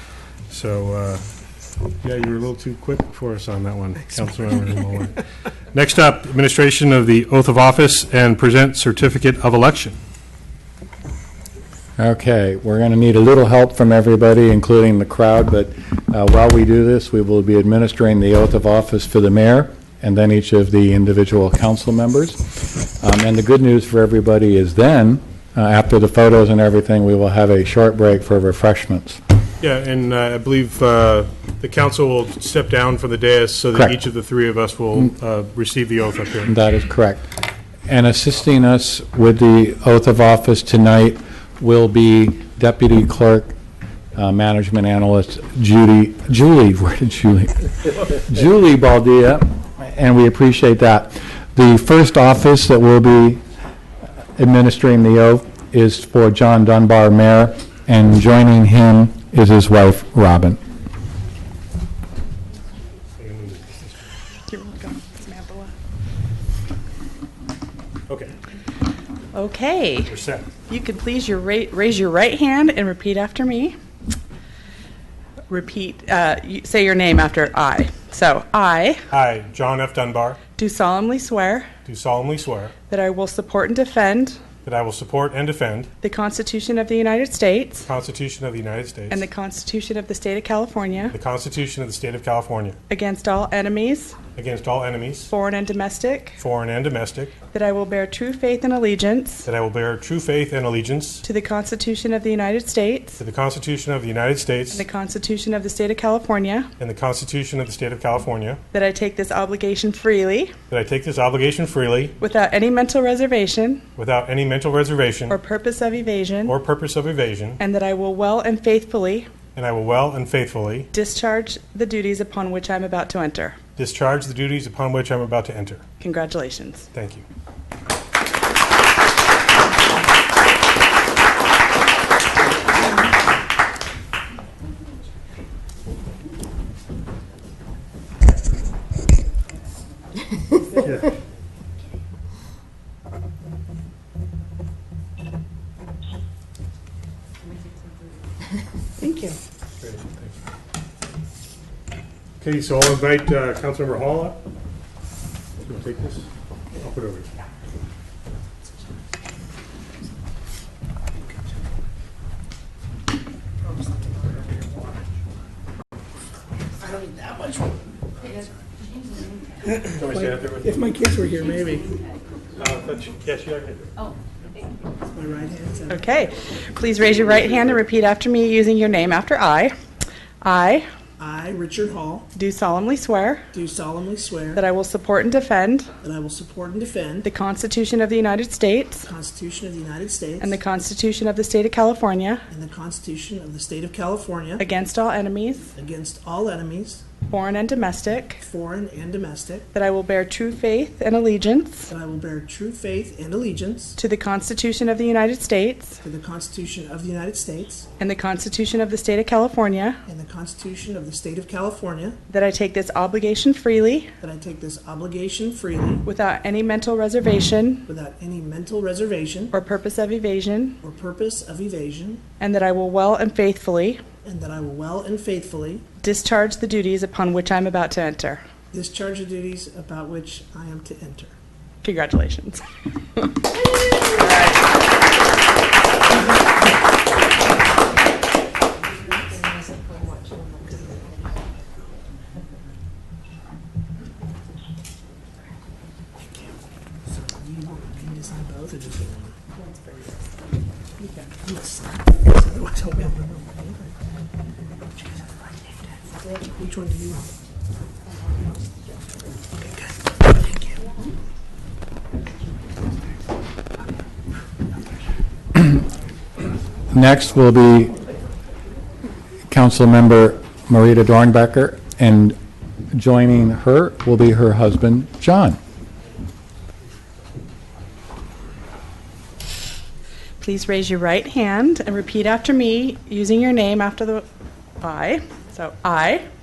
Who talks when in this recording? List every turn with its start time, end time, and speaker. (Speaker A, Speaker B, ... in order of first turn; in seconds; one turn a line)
Speaker A: 0.5-1.2
Speaker A: 2.0-5.2
Speaker A: 5.7-10.0
Speaker B: 12.0-29.2
Speaker A: 29.6-36.5
Speaker B: 36.5-37.3
Speaker B: 37.9-43.5
Speaker B: 44.1-53.4
Speaker B: 54.4-60.6
Speaker A: 63.2-64.1
Speaker C: 64.5-65.7
Speaker A: 68.1-68.3
Speaker C: 69.3-70.1
Speaker A: 70.0-70.5
Speaker C: 70.7-73.8
Speaker C: 75.5-79.0
Speaker A: 79.1-80.4
Speaker C: 80.6-81.7
Speaker A: 81.8-82.7
Speaker C: 82.9-84.4
Speaker A: 84.6-85.9
Speaker C: 86.0-87.9
Speaker A: 87.8-89.2
Speaker C: 89.1-91.1
Speaker A: 91.1-92.8
Speaker C: 92.9-94.2
Speaker A: 94.3-95.3
Speaker C: 95.3-96.4
Speaker A: 96.4-97.3
Speaker C: 97.5-99.5
Speaker A: 99.4-101.2
Speaker C: 101.2-103.2
Speaker A: 103.2-104.8
Speaker C: 104.7-106.7
Speaker A: 106.8-108.6
Speaker C: 108.7-110.5
Speaker A: 110.7-112.1
Speaker C: 112.2-113.8
Speaker A: 114.0-115.4
Speaker C: 115.3-116.5
Speaker A: 116.5-117.6
Speaker C: 117.6-119.3
Speaker A: 119.5-120.9
Speaker C: 120.9-123.6
Speaker A: 123.8-125.8
Speaker C: 126.0-126.9
Speaker A: 126.9-127.2
Speaker A: 140.8-141.1
Speaker C: 149.0-149.4
Speaker A: 149.8-150.3
Speaker A: 152.4-154.4
Speaker A: 155.6-156.2
Speaker A: 156.8-157.3
Speaker D: 166.8-167.7
Speaker A: 169.9-170.7
Speaker D: 170.1-171.9
Speaker A: 172.6-173.9
Speaker D: 175.1-176.1
Speaker C: 175.9-179.7
Speaker C: 180.4-180.9
Speaker D: 181.2-182.3
Speaker C: 182.3-183.4
Speaker D: 183.5-184.6
Speaker C: 184.5-185.9
Speaker D: 186.0-187.3
Speaker C: 187.2-189.1
Speaker D: 189.0-190.6
Speaker C: 190.4-192.4
Speaker D: 192.5-194.6
Speaker C: 194.6-195.7
Speaker D: 195.7-197.0
Speaker C: 197.3-198.4
Speaker D: 198.4-199.7
Speaker C: 199.7-201.9
Speaker D: 201.9-204.0
Speaker C: 204.0-206.0
Speaker D: 206.0-207.8
Speaker C: 208.0-210.0
Speaker D: 210.1-212.2
Speaker C: 212.3-214.1
Speaker D: 214.2-216.1
Speaker C: 216.0-217.8
Speaker D: 217.9-219.5
Speaker C: 219.5-220.8
Speaker D: 220.8-222.2
Speaker C: 222.4-224.0
Speaker D: 224.2-225.8
Speaker C: 226.0-228.4
Speaker D: 228.7-231.3
Speaker C: 231.8-232.6
Speaker C: 234.0-234.7
Speaker D: 246.2-249.3
Speaker D: 251.4-253.9
Speaker D: 255.0-255.9
Speaker D: 256.5-257.3
Speaker D: 259.6-260.8
Speaker B: 265.5-265.8
Speaker B: 266.9-267.9
Speaker B: 269.5-272.4
Speaker B: 272.9-275.6
Speaker C: 280.4-284.2
Speaker C: 284.8-286.2